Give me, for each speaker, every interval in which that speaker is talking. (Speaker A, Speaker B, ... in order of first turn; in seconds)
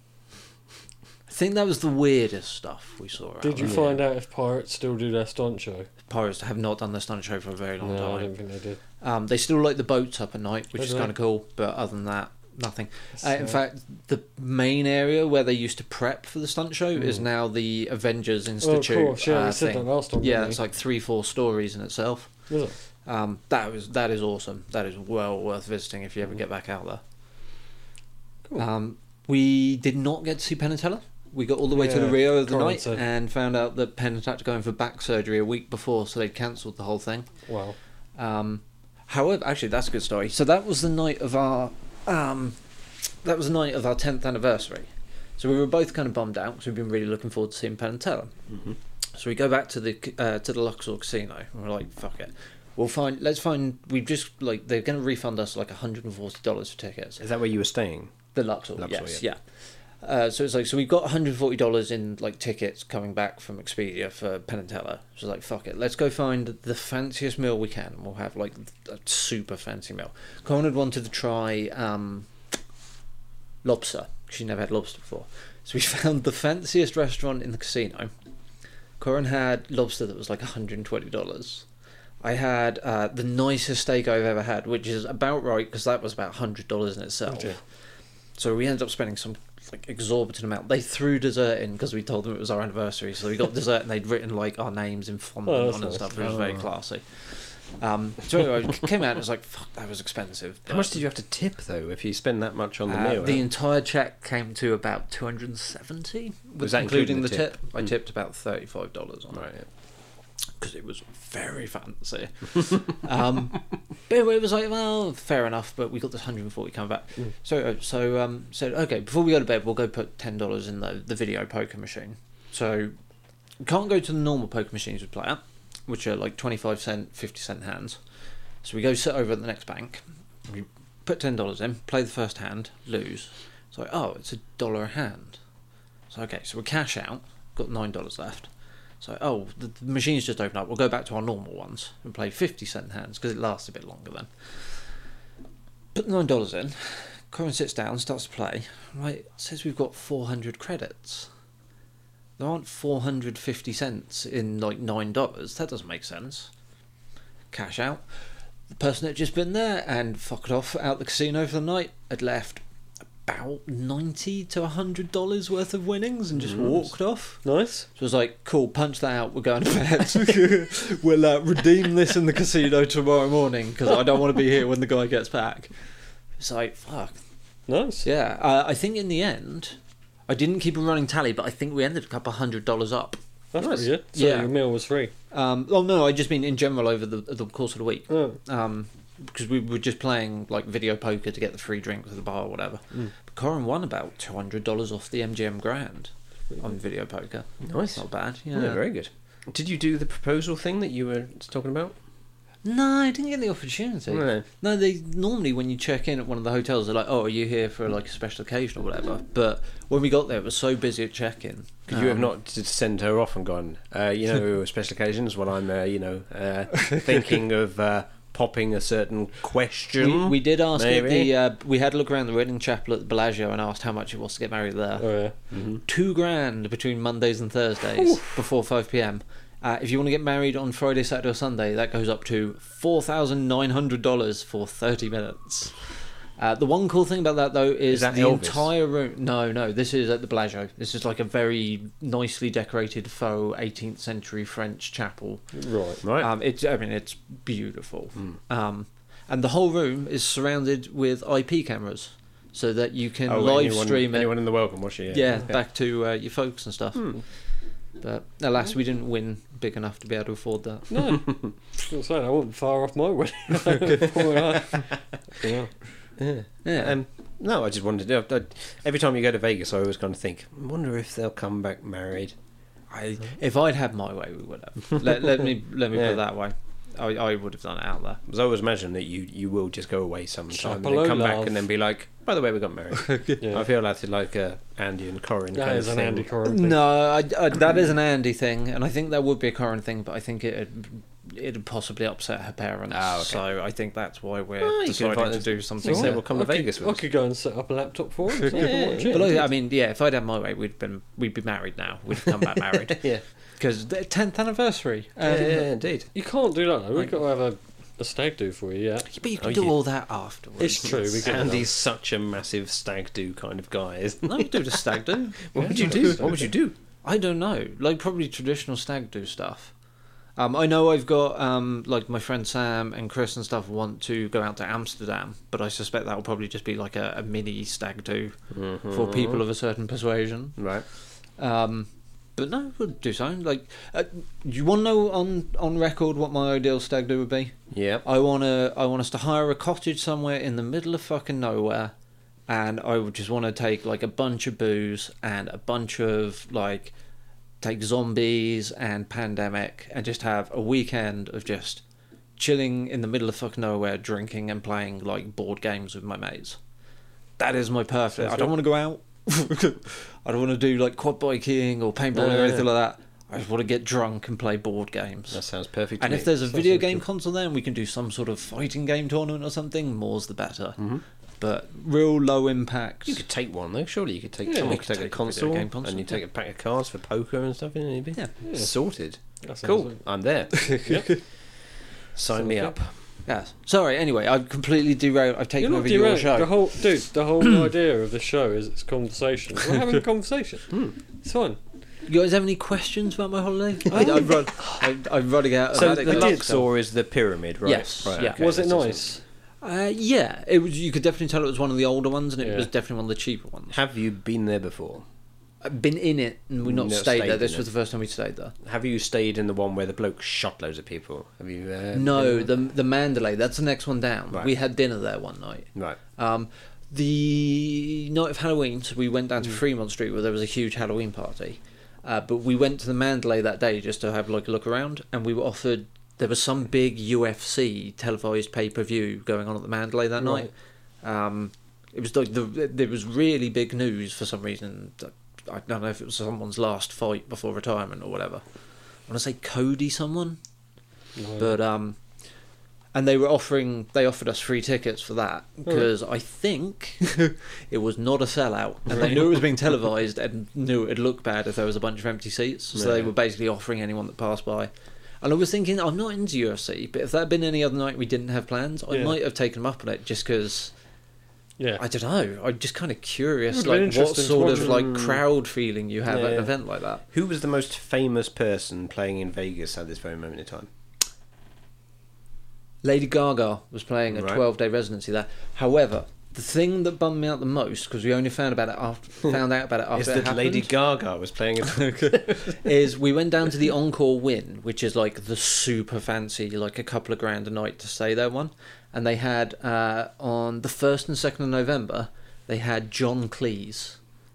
Speaker A: 1.3-4.0, 6.1-8.3, 9.0-22.3, 23.1-27.0, 28.6-37.3, 38.2-42.6, 43.2-48.3, 49.1-57.2, 58.3-59.4, 60.0-72.3, 73.6-78.1, 79.0-81.6, 82.2-87.6, 88.3-101.0, 102.9-109.5, 110.6-122.9, 123.6-128.0, 128.6-135.4, 136.1-138.5, 139.0-144.3, 145.9-151.3, 152.4-156.5, 157.5-158.0, 158.7-162.6, 163.2-167.4, 167.9-175.7, 176.4-177.1, 178.0-179.8, 180.3-183.2, 184.1-184.5, 185.3-198.8, 202.6-212.3, 220.0-225.1, 225.8-254.3, 255.1-257.2, 258.0-261.2, 266.6-267.0, 272.9-278.2, 283.0-283.4, 286.4-296.2, 298.4-303.1, 303.6-305.7, 309.1-311.5, 314.2-316.3, 317.0-319.7, 320.4-328.4, 328.9-330.6, 331.4-341.9, 342.5-346.9, 347.6-351.8, 352.4-356.6, 357.4-365.4, 366.0-370.8, 371.4-373.2, 374.6-376.2, 380.5-381.1, 383.2-386.8, 392.1-396.6, 397.6-398.4, 399.6-403.7, 405.6-408.5, 411.9-430.5, 431.0-438.4, 439.1-440.4, 441.4-441.9, 442.9-454.7, 455.2-460.7, 461.8-467.0, 472.8-480.7, 481.7-494.0
Speaker B: 3.4-5.9, 7.8-8.8, 10.8-11.1, 13.2-13.6, 17.0-17.2, 18.6-20.6, 22.5-22.7, 31.7-33.0, 37.5-37.8, 87.3-87.6, 95.5-96.2, 167.4-167.9, 177.7-178.1, 183.5-185.1, 188.1-188.4, 225.0-225.3, 245.5-246.0, 260.9-265.7, 280.5-281.6, 283.4-283.7, 285.5-286.8, 295.8-299.4, 306.1-309.1, 310.6-311.7, 315.6-316.5, 358.2-358.5, 374.4-374.8, 378.4-378.7, 379.4-380.0, 380.9-381.1, 382.3-382.7, 385.6-391.6, 393.9-394.8, 396.0-396.5, 398.2-399.2, 402.4-402.7, 430.2-430.5, 441.1-441.5, 448.9-449.2, 458.9-459.1, 461.6-461.8, 463.5-464.9
Speaker C: 57.2-58.1, 58.8-59.2, 96.2-96.6, 100.7-103.5, 106.6-107.9, 109.3-109.7, 166.4-166.7, 183.6-183.9, 197.6-202.0, 204.1-204.4, 211.9-221.3, 225.5-225.8, 237.9-238.7, 246.0-246.3, 253.3-255.5, 266.2-272.3, 275.9-276.2, 278.3-286.3, 292.9-293.4, 294.6-297.0, 298.5-299.4, 302.9-303.2, 305.2-306.1, 309.4-309.8, 311.2-314.8, 315.4-316.7, 328.5-329.4, 330.6-330.9, 337.7-338.0, 362.1-362.7, 365.3-366.5, 370.8-371.0, 373.1-380.6, 382.1-382.9, 395.7-399.1, 403.7-405.1, 406.6-407.6, 408.6-412.5, 452.7-453.1, 464.7-465.2, 466.1-466.5, 467.1-470.7, 474.1-474.4, 479.9-482.6